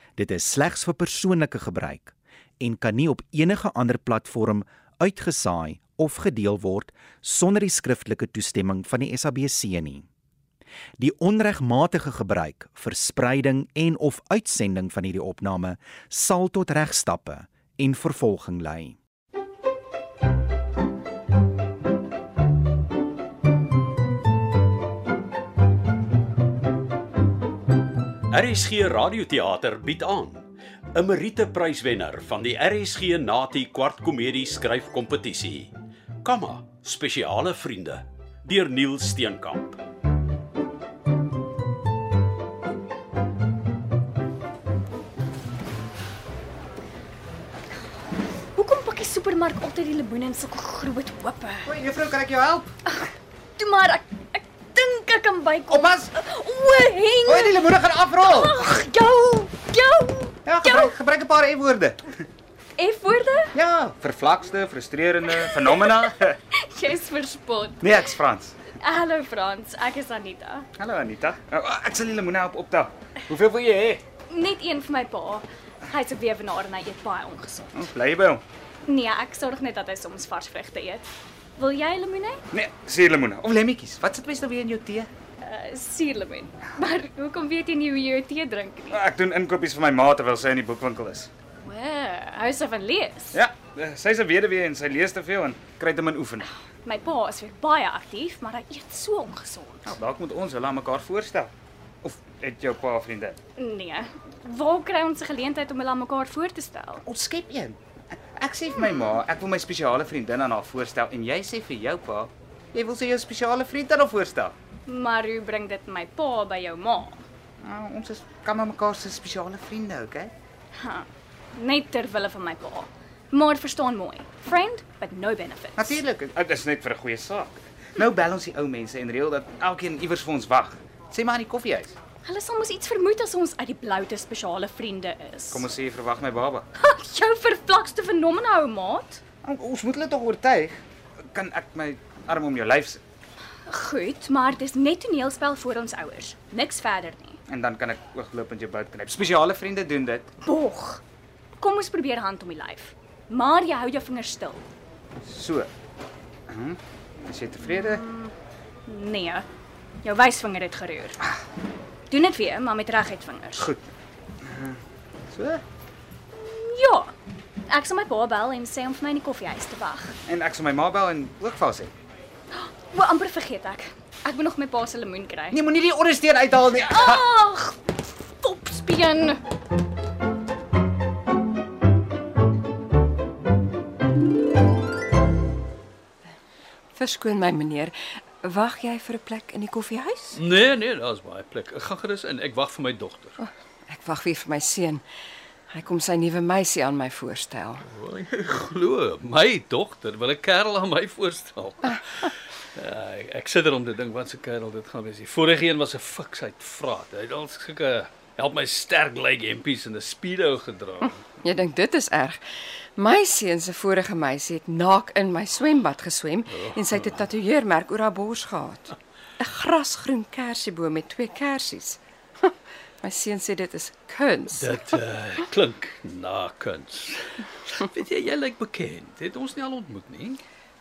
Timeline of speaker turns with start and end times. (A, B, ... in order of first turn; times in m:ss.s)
0:00.2-0:10.1 A
0:11.0-0:19.0 A
0:28.3-0:35.7 B
0:36.2-0:39.8 B
0:48.6-0:51.7 C
0:51.6-0:52.7 D
0:52.9-0:57.7 C
0:55.7-0:56.1 D
0:57.3-0:58.6 D
0:58.2-1:00.9 C
1:00.5-1:02.1 D
1:02.8-1:03.5 C
1:03.5-1:06.4 D
1:05.4-1:06.0 C
1:06.5-1:08.1 C
1:07.8-1:08.6 D
1:08.8-1:10.7 C
1:10.8-1:14.0 D
1:14.3-1:17.8 C
1:17.7-1:18.4 D
1:18.9-1:22.4 C
1:22.5-1:25.1 D
1:25.4-1:29.0 C
1:28.9-1:31.3 D
1:31.6-1:33.4 C
1:33.3-1:36.5 D
1:36.8-1:39.9 C
1:39.9-1:41.5 D
1:42.0-1:43.4 D
1:43.6-1:47.0 C
1:47.1-1:47.8 D
1:48.3-1:54.6 D
1:54.9-1:57.2 C
1:57.6-2:00.3 D
2:00.8-2:06.0 C
2:05.8-2:12.0 D
2:12.2-2:15.7 C
2:15.5-2:16.7 D
2:16.8-2:19.2 C
2:19.4-2:20.8 D
2:21.3-2:23.0 D
2:23.7-2:27.4 C
2:27.5-2:30.3 D
2:30.4-2:31.0 C
2:31.6-2:34.6 C
2:35.2-2:35.7 D
2:36.5-2:38.0 D
2:37.6-2:38.3 C
2:38.9-2:39.5 C
2:40.0-2:41.2 C
2:42.1-2:43.7 C
2:43.6-2:43.8 D
2:44.4-2:44.8 D
2:45.3-2:45.6 D
2:46.3-2:47.1 C
2:47.7-2:50.2 C
2:50.3-2:51.9 D
2:52.5-2:55.6 C
2:55.5-2:57.2 D
2:56.8-2:57.8 C
2:58.4-2:59.4 C
3:07.0-3:10.4 E
3:10.3-3:13.4 F
3:13.4-3:15.0 E
3:15.7-3:17.8 E
3:17.9-3:31.2 F
3:31.1-3:32.4 E
3:33.0-3:44.8 E
3:36.6-3:37.2 F
3:44.6-3:50.4 F